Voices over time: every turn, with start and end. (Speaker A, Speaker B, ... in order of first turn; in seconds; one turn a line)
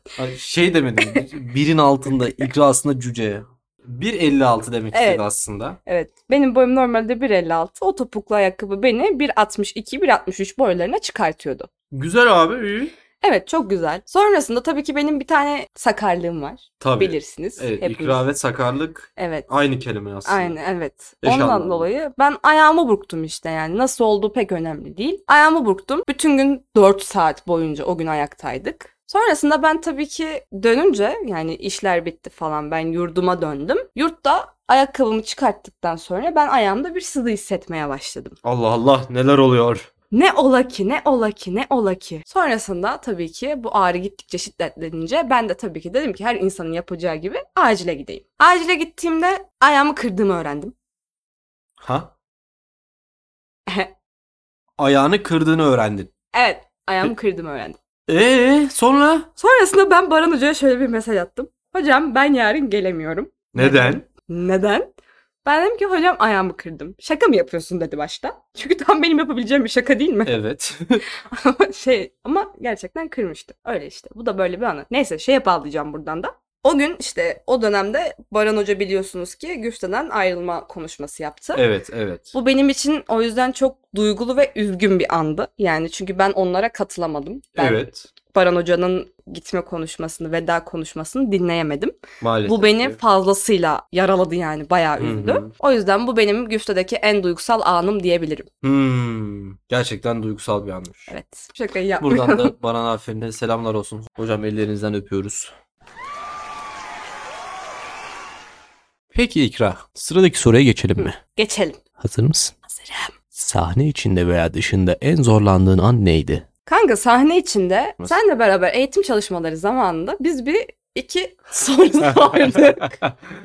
Speaker A: 0.2-5.8
Speaker B: 1.0-1.2
Speaker B: 4.9-5.2
Speaker B: 5.8-11.7
Speaker A: 11.9-12.9
Speaker B: 13.2-18.2
Speaker A: 16.8-20.6
Speaker B: 19.1-19.5
Speaker B: 20.2-38.4
Speaker A: 21.2-21.9
Speaker A: 38.4-39.9
Speaker B: 40.1-50.7
Speaker A: 51.8-52.1
Speaker B: 53.7-53.9
Speaker A: 54.8-56.1
Speaker B: 56.3-57.8
Speaker A: 58.1-59.3
Speaker B: 59.4-70.4
Speaker A: 63.5-64.0
Speaker A: 70.2-71.0
Speaker B: 71.2-81.6
Speaker A: 81.5-82.3
Speaker B: 82.3-98.5
Speaker A: 87.6-88.1
Speaker A: 92.2-93.0
Speaker A: 95.0-95.5
Speaker A: 98.6-101.1
Speaker B: 101.1-102.5
Speaker A: 102.0-105.5
Speaker A: 109.1-111.2
Speaker B: 111.0-111.8
Speaker A: 112.0-112.5
Speaker B: 112.7-113.1
Speaker A: 113.3-116.4
Speaker B: 116.7-123.0
Speaker A: 122.0-123.1